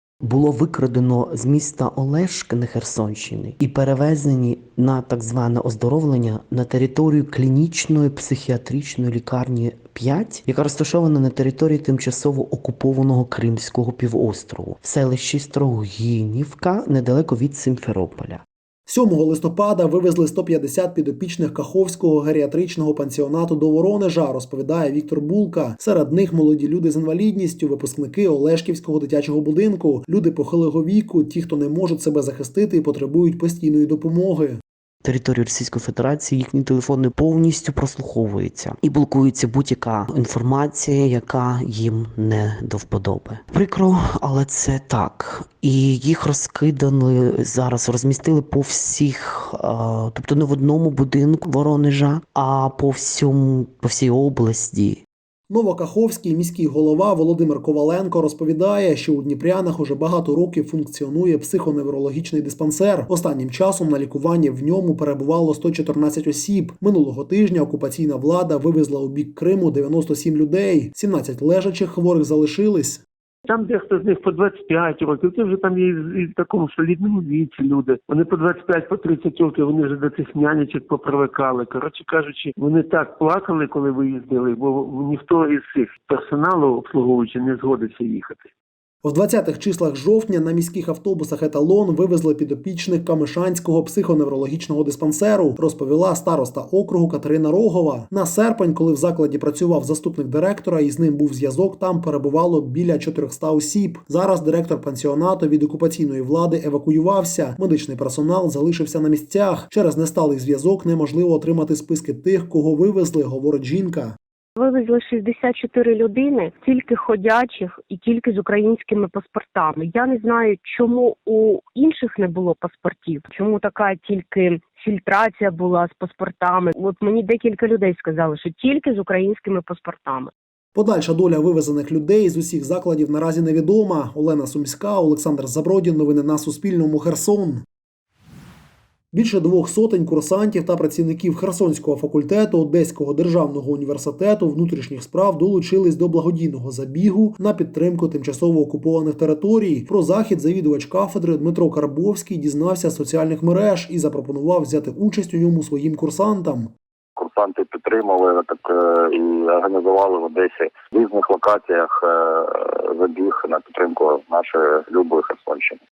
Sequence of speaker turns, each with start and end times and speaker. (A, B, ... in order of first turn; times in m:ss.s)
0:00.2-0:18.4 A
0:18.9-0:34.6 B
0:35.0-0:55.0 A
0:55.5-1:13.0 B
1:13.5-1:28.4 C
1:29.0-1:54.2 B
1:54.6-2:10.3 D
2:10.8-2:17.6 B
2:19.1-2:36.7 B
2:37.2-2:45.8 E